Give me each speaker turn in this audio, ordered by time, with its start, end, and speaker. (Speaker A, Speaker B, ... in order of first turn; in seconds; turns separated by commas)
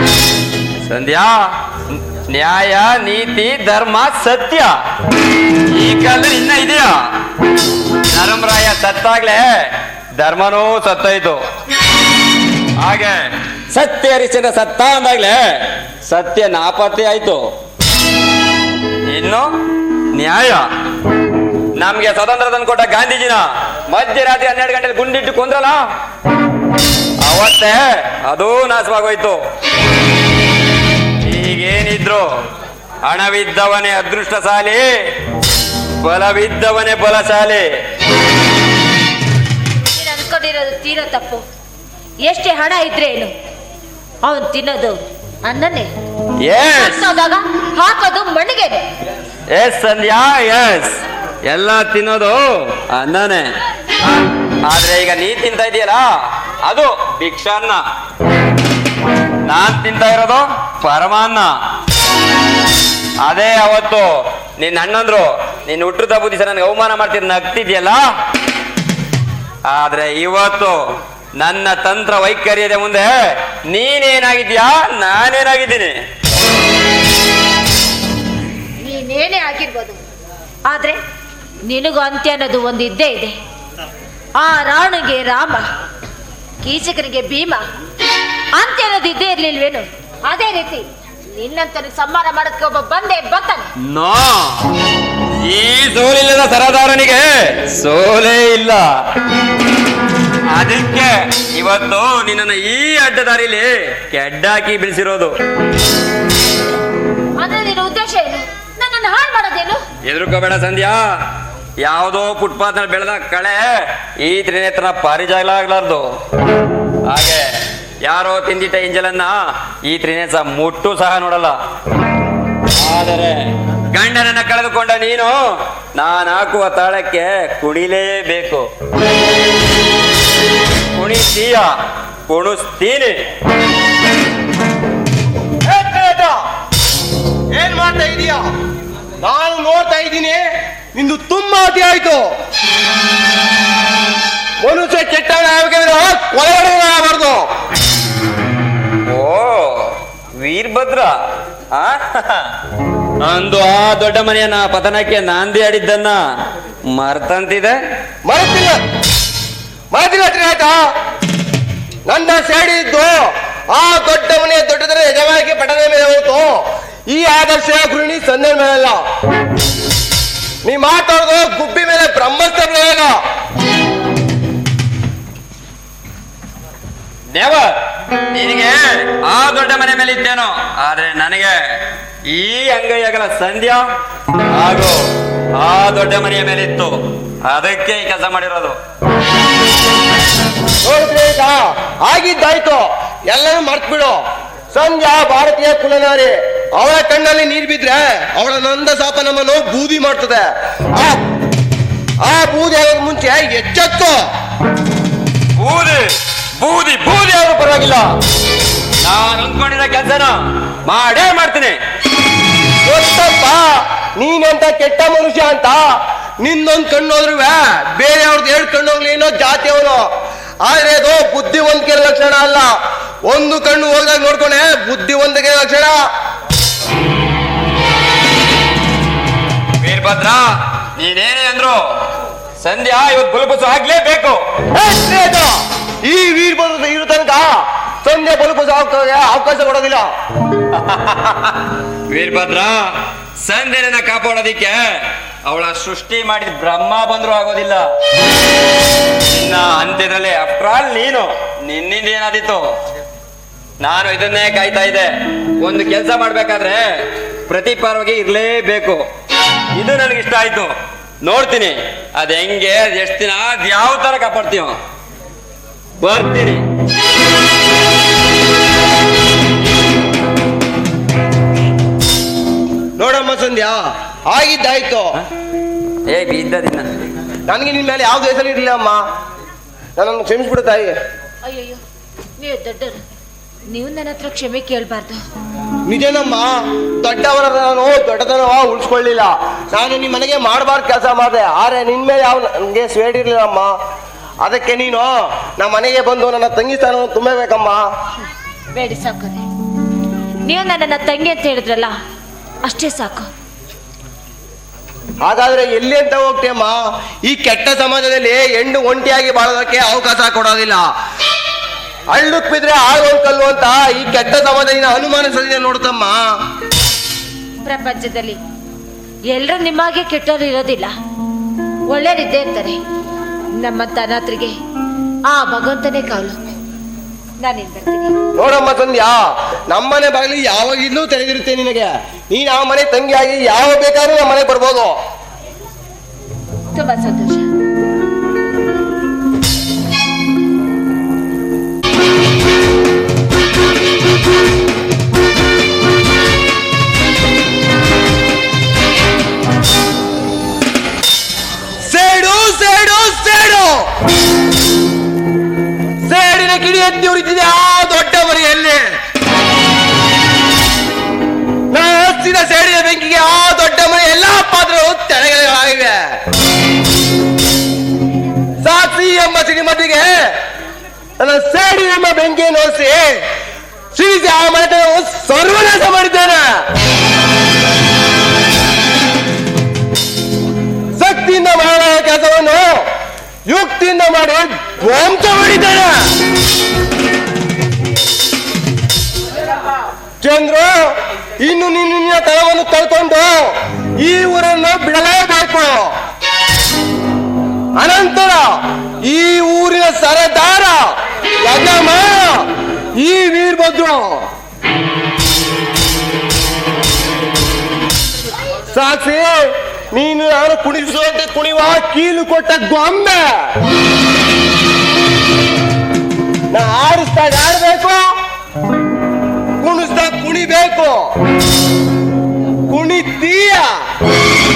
Speaker A: 0.9-4.7, Speaker A: 5.7-7.0, Speaker A: 8.1-9.5, Speaker A: 10.2-11.4, Speaker A: 12.8-15.4, Speaker A: 16.1-17.4, Speaker A: 19.1-19.5, Speaker A: 20.1-20.6, Speaker A: 21.8-25.8, Speaker A: 27.2-29.4, Speaker A: 31.2-32.3, Speaker A: 33.0-34.9, Speaker A: 36.0-37.6, Speaker B: 39.9-41.4, Speaker B: 42.2-43.3, Speaker B: 44.2-45.9, Speaker A: 46.4-47.1, Speaker B: 46.7-48.9, Speaker A: 49.5-53.5, Speaker A: 54.6-56.0, Speaker A: 56.6-57.8, Speaker A: 59.5-61.5, Speaker A: 63.2-68.0, Speaker A: 69.7-70.8, Speaker A: 71.4-73.1, Speaker A: 73.7-76.0, Speaker B: 78.8-80.0, Speaker B: 80.7-81.0, Speaker B: 81.7-83.4, Speaker B: 84.4-85.7, Speaker B: 86.6-87.6, Speaker B: 88.5-93.7, Speaker A: 93.9-94.7, Speaker A: 95.4-98.8, Speaker A: 100.5-105.3, Speaker B: 107.4-109.8, Speaker A: 110.0-111.0, Speaker A: 111.8-116.0, Speaker A: 117.1-117.5, Speaker A: 118.0-121.6, Speaker A: 122.8-125.4, Speaker A: 126.0-128.7, Speaker A: 130.9-131.7, Speaker A: 132.3-133.2, Speaker C: 135.6-136.4, Speaker C: 137.5-138.4, Speaker C: 139.2-140.4, Speaker C: 140.9-142.3, Speaker C: 144.6-147.4, Speaker A: 149.1-151.1, Speaker A: 151.7-152.5, Speaker A: 153.2-156.2, Speaker A: 156.9-157.8, Speaker C: 158.3-158.8, Speaker C: 159.9-160.7, Speaker C: 162.1-166.6, Speaker C: 167.1-169.0, Speaker C: 170.7-173.1, Speaker A: 177.3-177.8, Speaker A: 178.3-181.6, Speaker A: 182.3-183.8, Speaker A: 184.5-185.0, Speaker A: 185.6-186.9, Speaker A: 187.4-188.8, Speaker C: 190.8-194.2, Speaker C: 194.7-201.2, Speaker C: 202.2-204.2, Speaker A: 205.6-206.1, Speaker A: 206.6-208.1, Speaker A: 209.0-211.8, Speaker C: 212.8-215.8, Speaker C: 216.4-220.1, Speaker C: 220.7-222.7, Speaker C: 223.3-225.9, Speaker A: 229.8-230.4, Speaker A: 231.0-231.8, Speaker A: 232.6-234.4, Speaker C: 234.7-235.5, Speaker C: 236.1-237.5, Speaker C: 238.0-240.1, Speaker A: 240.8-241.5, Speaker A: 242.1-242.9, Speaker A: 243.4-244.8, Speaker A: 245.4-247.8, Speaker A: 249.3-252.6, Speaker A: 253.8-255.1, Speaker A: 255.6-256.9, Speaker A: 257.5-259.0, Speaker A: 259.8-260.7, Speaker A: 261.2-264.8, Speaker A: 266.0-266.6, Speaker C: 273.0-275.1, Speaker A: 276.1-276.9, Speaker C: 277.5-279.0, Speaker C: 280.0-280.9, Speaker B: 281.4-281.8, Speaker B: 282.4-283.0, Speaker B: 283.7-285.2, Speaker C: 285.9-293.7, Speaker C: 294.4-297.8, Speaker B: 298.8-299.4, Speaker B: 300.5-301.9, Speaker B: 302.6-303.3, Speaker C: 305.2-310.8, Speaker C: 312.1-316.2, Speaker B: 317.7-318.4, Speaker B: 319.3-320.9, Speaker B: 321.9-322.8, Speaker B: 323.6-324.6, Speaker B: 325.3-326.4, Speaker B: 327.4-328.1, Speaker C: 328.4-329.2, Speaker C: 329.7-335.0, Speaker B: 336.7-337.5, Speaker C: 351.9-353.8, Speaker C: 356.1-358.9, Speaker C: 361.7-366.0, Speaker C: 368.6-370.1, Speaker C: 371.2-373.2, Speaker C: 373.9-376.5, Speaker C: 381.0-382.8, Speaker C: 383.5-386.0, Speaker C: 390.2-390.9, Speaker C: 391.4-395.9, Speaker C: 397.8-400.9, Speaker C: 401.4-402.4, Speaker C: 403.0-404.2, Speaker C: 408.7-413.4, Speaker C: 416.5-418.0, Speaker C: 419.6-421.0, Speaker C: 422.7-423.7